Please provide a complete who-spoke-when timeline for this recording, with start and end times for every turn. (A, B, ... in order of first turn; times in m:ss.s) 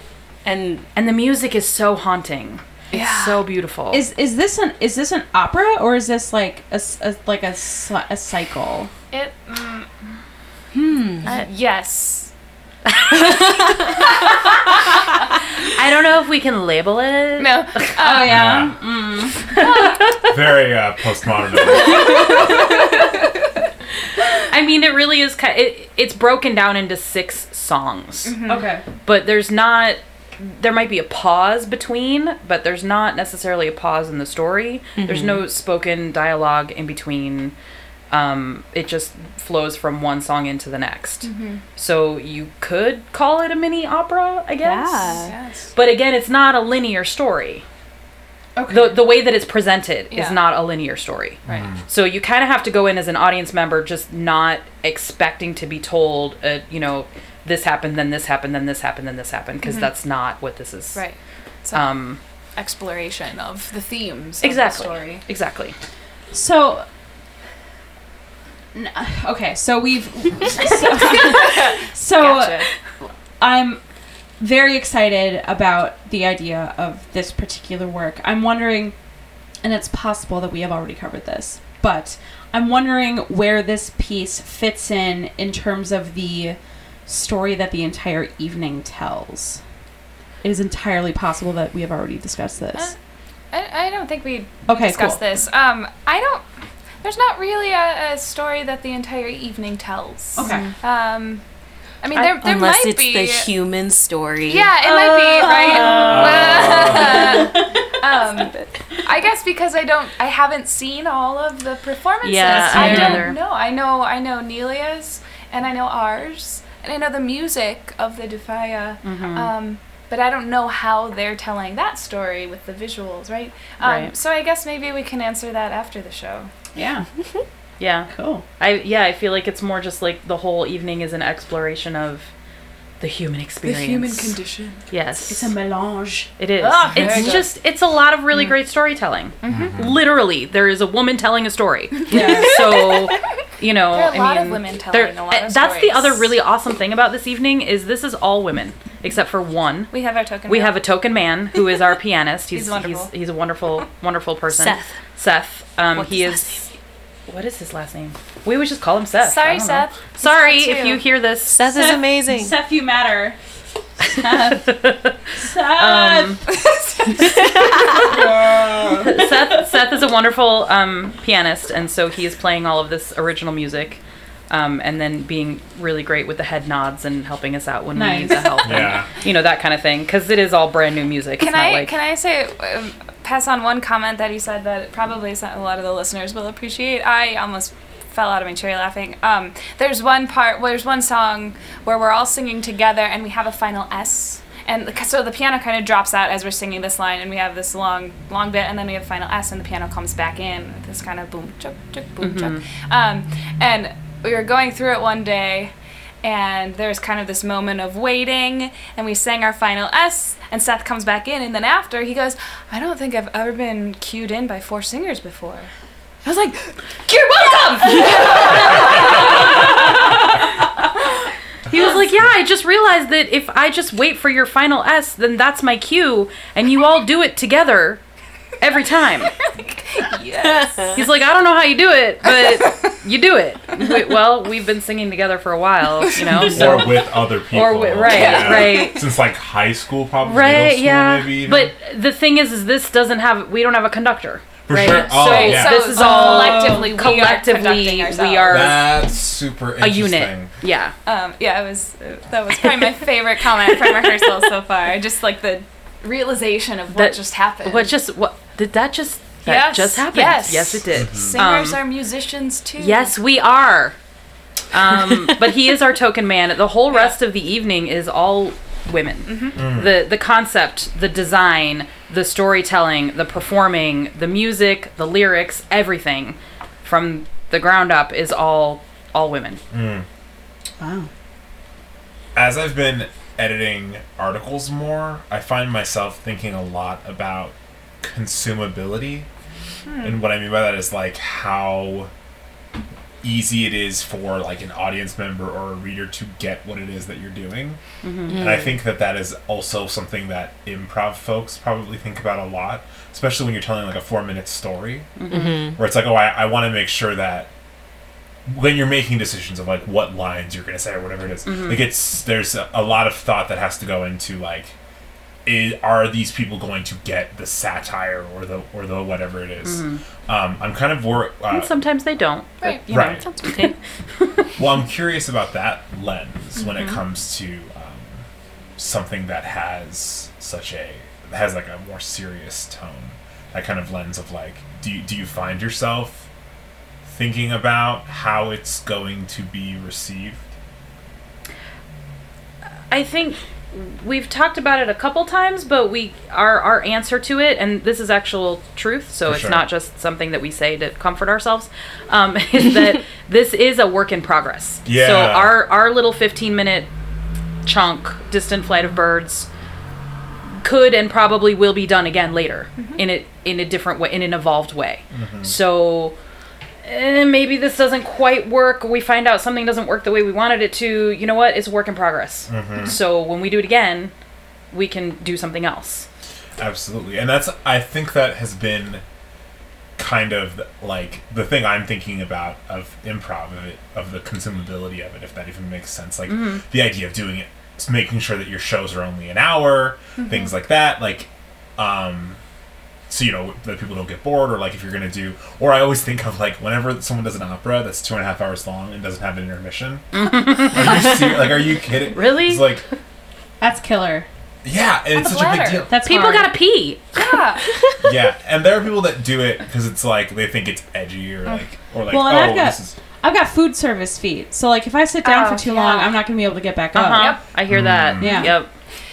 0:00.4-0:00.9 A
0:00.9-0:04.0 B
0:02.9-0:03.4 C
0:03.9-0:08.9 D
0:09.1-0:10.0 C
0:11.2-0:12.3 C
0:12.9-0:13.3 B
0:13.3-0:13.8 C
0:15.7-0:18.4 B
0:17.4-0:18.5 C
0:18.0-0:19.6 D
0:18.2-0:18.7 E
0:19.5-0:20.3 B
0:19.6-0:20.0 C
0:20.2-0:22.2 E
0:22.0-0:22.5 C
0:24.5-0:28.4 B
0:28.2-0:28.6 C
0:28.4-0:28.8 D
0:29.0-0:37.5 B
0:35.0-0:35.4 A
0:38.1-0:47.6 B
0:41.2-0:41.6 C
0:44.6-0:45.3 A
0:45.1-0:45.7 C
0:48.5-0:49.0 D
0:48.7-1:01.2 B
0:50.1-0:50.4 C
0:51.4-0:51.8 E
0:59.6-0:59.9 C
1:00.9-1:02.0 C
1:01.7-1:02.2 B
1:02.6-1:05.2 C
1:04.4-1:05.7 B
1:06.3-1:06.8 D
1:08.7-1:19.0 D
1:10.9-1:12.8 C
1:19.6-1:29.6 D
1:30.4-1:32.9 D
1:33.5-1:41.4 C
1:34.6-1:35.2 D
1:40.3-1:40.7 D
1:40.4-1:40.7 B
1:42.0-1:43.5 C
1:42.1-1:42.4 B
1:42.4-1:46.6 A
1:44.5-2:06.5 C
1:45.6-1:46.3 D
1:46.1-1:47.1 E
1:47.2-1:47.5 D
1:52.2-1:53.4 B
1:52.5-1:53.3 D
1:59.0-1:59.5 B
2:03.8-2:04.1 B
2:06.7-2:07.1 D
2:07.8-2:12.3 B
2:08.1-2:08.4 D
2:13.0-2:15.5 B
2:13.6-2:14.9 C
2:15.3-2:16.3 D
2:16.4-2:29.9 B
2:16.6-2:17.5 C
2:16.9-2:17.4 D
2:19.4-2:19.7 C
2:19.4-2:20.0 E
2:22.1-2:22.6 D
2:22.1-2:23.1 C
2:23.9-2:26.3 C
2:29.9-2:30.8 C
2:30.4-2:36.7 B
2:32.5-2:33.1 C
2:34.5-2:35.0 A
2:35.9-2:36.7 A
2:37.3-2:41.9 B
2:39.2-2:41.0 C
2:41.5-2:42.5 A
2:41.7-2:43.4 D
2:44.0-2:44.8 D
2:44.2-2:46.4 B
2:45.3-2:46.4 D
2:46.5-2:48.0 C
2:47.2-2:48.2 B
2:48.0-2:49.4 D
2:49.0-3:01.9 B
2:57.9-2:58.9 D
2:58.6-2:59.1 E
3:01.4-3:35.7 C
3:22.2-3:22.6 B
3:36.2-3:40.5 C
3:38.9-3:39.1 B
3:41.7-3:48.0 B
3:48.6-3:49.3 B
3:49.4-3:51.1 C
3:50.3-3:50.9 A
3:50.9-3:59.0 B
3:52.3-3:52.9 C
3:56.4-4:01.7 E
3:58.3-3:58.9 C
4:00.2-4:08.9 B
4:04.6-4:06.0 E
4:04.8-4:08.7 C
4:08.5-4:10.5 E
4:09.8-4:10.9 B
4:11.0-4:17.9 C
4:16.9-4:21.8 B
4:19.4-4:23.2 C
4:20.9-4:21.4 E
4:22.8-4:24.0 B
4:24.7-4:39.6 B
4:26.9-4:27.1 C
4:29.3-4:29.6 C
4:29.6-4:29.9 E
4:39.7-4:40.0 E
4:40.8-4:41.1 D
4:42.3-4:49.3 E
4:49.8-4:50.2 C
4:50.0-4:52.1 E
4:53.2-5:07.5 E
4:58.0-4:58.5 B
4:58.3-4:58.7 A
5:05.2-5:05.7 B
5:05.3-5:05.8 A
5:08.4-5:14.7 E
5:11.4-5:11.8 B
5:15.4-5:21.7 E
5:19.6-5:20.0 B
5:21.5-5:24.5 B
5:22.6-5:23.5 C
5:22.9-5:23.2 E
5:23.4-5:23.7 A
5:24.5-5:28.2 E
5:28.8-5:36.3 E
5:37.0-5:40.5 E
5:42.9-5:56.9 B
5:49.2-5:49.6 E
5:54.8-5:55.5 E
5:57.6-5:59.5 B
6:00.6-6:06.2 B
6:05.1-6:05.6 E
6:06.8-6:14.1 B
6:12.5-6:13.0 E
6:14.7-6:16.1 B
6:16.6-6:19.0 E
6:20.0-6:32.4 E
6:26.2-6:26.6 B
6:30.2-6:30.5 C
6:33.1-6:42.8 E
6:40.1-6:41.4 B
6:42.1-6:42.8 B
6:43.6-6:44.2 D
6:44.6-6:46.0 E
6:45.1-6:45.9 C
6:45.9-6:46.6 D
6:46.0-6:47.4 B
6:47.1-6:47.6 C
6:48.0-6:52.9 E
6:52.1-6:57.4 D
6:55.2-6:56.1 C
6:56.9-6:58.8 B
6:57.1-6:57.5 C
6:57.7-6:58.3 E
6:58.2-6:58.5 D
6:58.2-6:58.5 C